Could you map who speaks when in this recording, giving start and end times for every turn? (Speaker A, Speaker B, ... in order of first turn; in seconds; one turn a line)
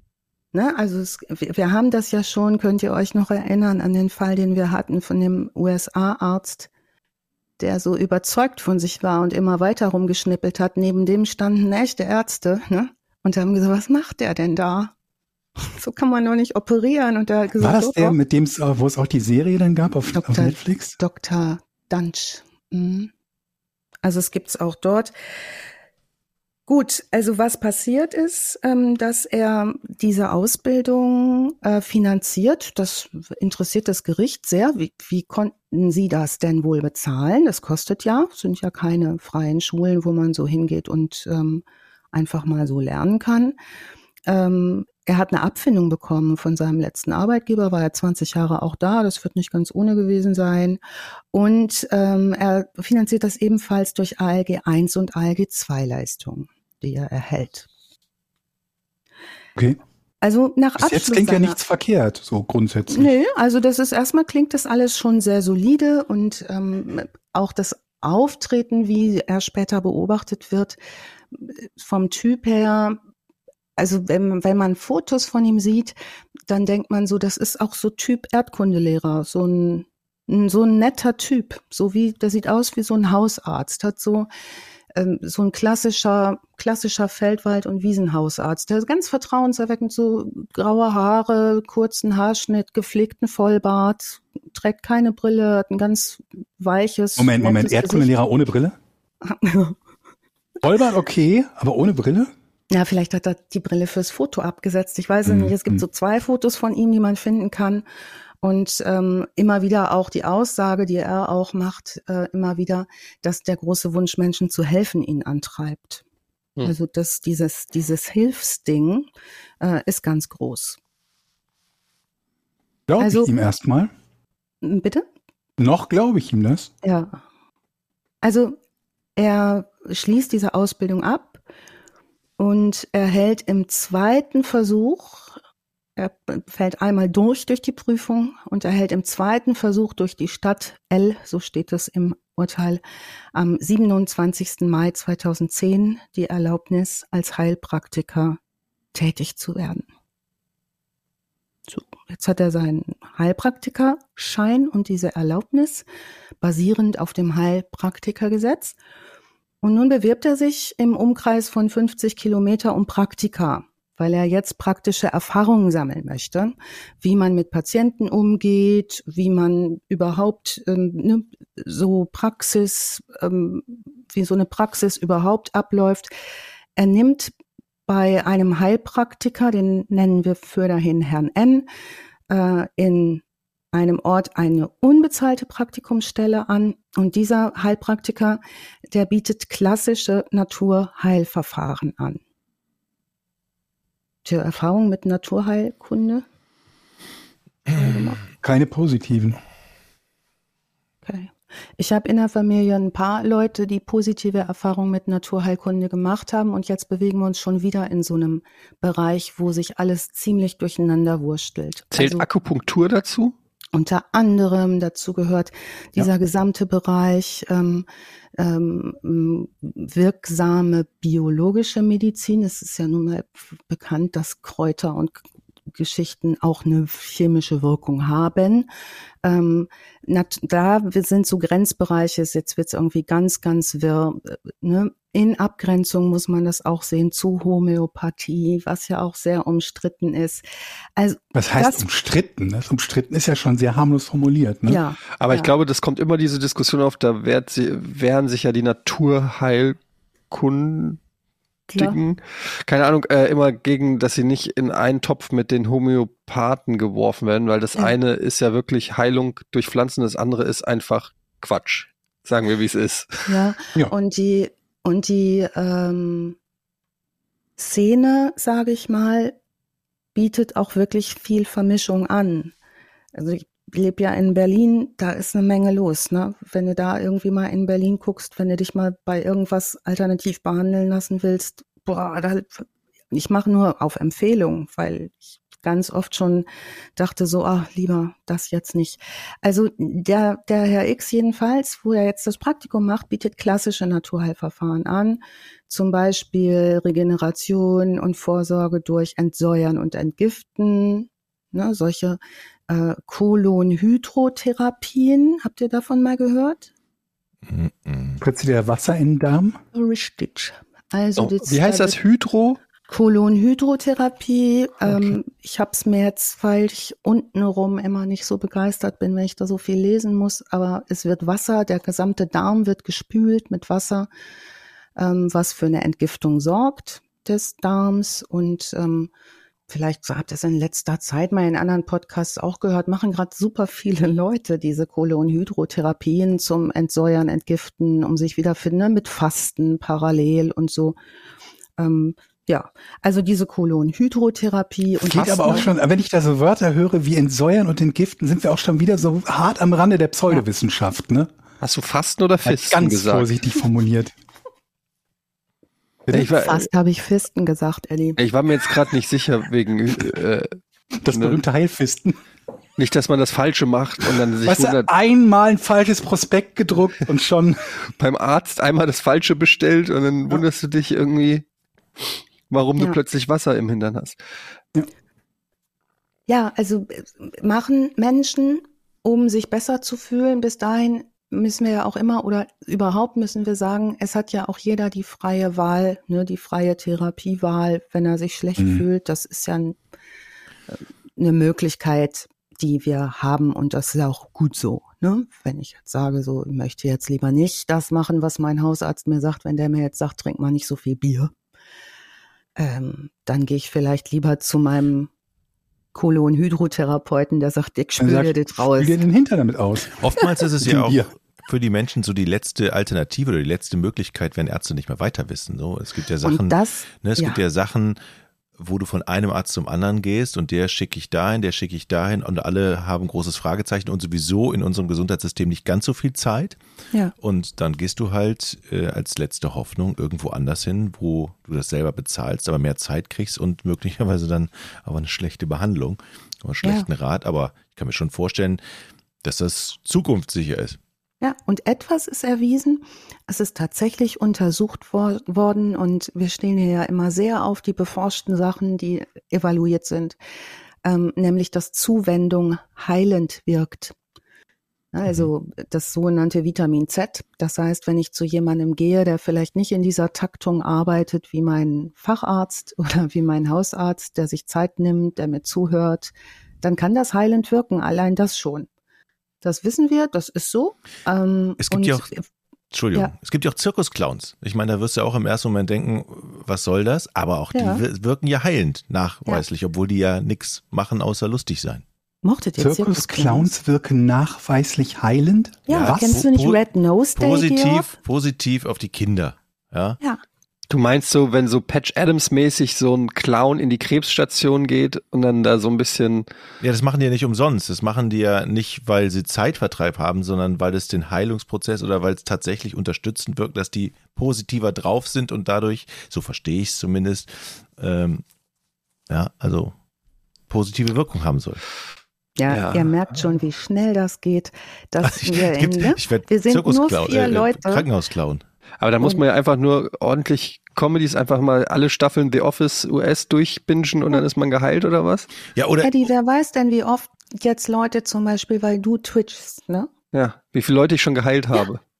Speaker A: 0.5-6.7
Speaker A: 7.6-14.9
Speaker A: 15.6-18.1
Speaker B: 17.6-21.0
Speaker A: 20.1-23.1
Speaker A: 24.0-25.1
Speaker A: 26.7-43.5
Speaker A: 44.2-50.8
Speaker A: 51.3-57.7
Speaker A: 60.2-61.6
Speaker B: 60.8-63.1
Speaker A: 62.9-70.8
Speaker A: 71.3-73.0
Speaker A: 73.8-76.0
Speaker A: 76.5-84.3
Speaker A: 84.9-98.1
Speaker B: 97.2-98.8
Speaker A: 99.2-99.8
Speaker B: 100.6-102.3
Speaker A: 102.7-107.8
Speaker B: 105.2-105.8
Speaker A: 108.4-116.0
Speaker A: 116.6-119.1
Speaker A: 119.6-120.8
Speaker B: 122.9-123.9
Speaker A: 123.0-123.3
Speaker A: 124.6-125.0
Speaker B: 125.6-126.7
Speaker A: 126.8-127.2
Speaker A: 128.2-128.6
Speaker A: 129.2-131.4
Speaker A: 132.4-135.4
Speaker A: 136.0-142.8
Speaker A: 143.3-148.4
Speaker A: 148.9-149.8
Speaker A: 151.7-155.8
Speaker A: 156.4-158.8
Speaker A: 159.6-176.1
Speaker A: 176.8-177.3
Speaker A: 177.9-181.7
Speaker A: 182.3-192.2
Speaker A: 194.2-196.2
Speaker A: 197.7-198.2
Speaker B: 198.4-199.4
Speaker A: 201.0-212.2
Speaker C: 211.9-213.3
Speaker A: 213.7-217.8
Speaker A: 218.4-228.7
Speaker A: 229.2-240.4
Speaker A: 240.9-241.8
Speaker B: 241.3-244.8
Speaker A: 244.7-245.5
Speaker C: 245.2-249.8
Speaker C: 250.3-251.0
Speaker A: 251.7-252.0
Speaker C: 251.8-263.3
Speaker A: 263.3-266.4
Speaker A: 267.6-269.4
Speaker A: 270.1-272.5
Speaker A: 273.1-306.7
Speaker D: 307.4-308.2
Speaker B: 308.2-309.6
Speaker A: 309.7-312.0
Speaker C: 311.2-312.6
Speaker A: 312.9-324.1
Speaker A: 324.9-329.1
Speaker A: 329.7-340.9
Speaker A: 341.8-345.7
Speaker B: 345.0-351.3
Speaker C: 351.6-353.3
Speaker B: 352.4-354.1
Speaker C: 356.1-356.7
Speaker A: 356.1-358.2
Speaker C: 358.2-360.6
Speaker B: 361.0-362.2
Speaker C: 361.1-361.4
Speaker C: 362.8-364.9
Speaker B: 364.4-367.7
Speaker C: 367.9-371.4
Speaker C: 372.0-374.2
Speaker A: 376.3-389.8
Speaker B: 388.6-388.8
Speaker A: 390.7-401.3
Speaker A: 402.6-405.1
Speaker A: 405.9-409.0
Speaker B: 408.0-411.1
Speaker D: 410.0-418.0
Speaker A: 416.2-417.4
Speaker D: 418.6-426.6
Speaker D: 427.2-438.6
Speaker A: 436.6-436.9
Speaker D: 439.2-440.8
Speaker A: 441.2-450.2
Speaker A: 450.8-453.9
Speaker A: 454.9-468.7
Speaker A: 469.4-472.2
Speaker D: 471.6-472.1
Speaker D: 472.7-481.8
Speaker A: 477.5-477.8
Speaker A: 482.2-483.5
Speaker B: 482.6-486.2
Speaker A: 485.7-487.9
Speaker D: 485.7-486.6
Speaker D: 487.1-490.0
Speaker C: 490.7-496.3
Speaker D: 496.6-508.2
Speaker D: 509.1-509.8
Speaker D: 510.5-511.6
Speaker A: 512.4-517.8
Speaker C: 512.5-512.9
Speaker D: 515.0-518.4
Speaker C: 518.8-525.3
Speaker D: 525.5-525.9
Speaker A: 525.8-529.9
Speaker C: 530.1-531.8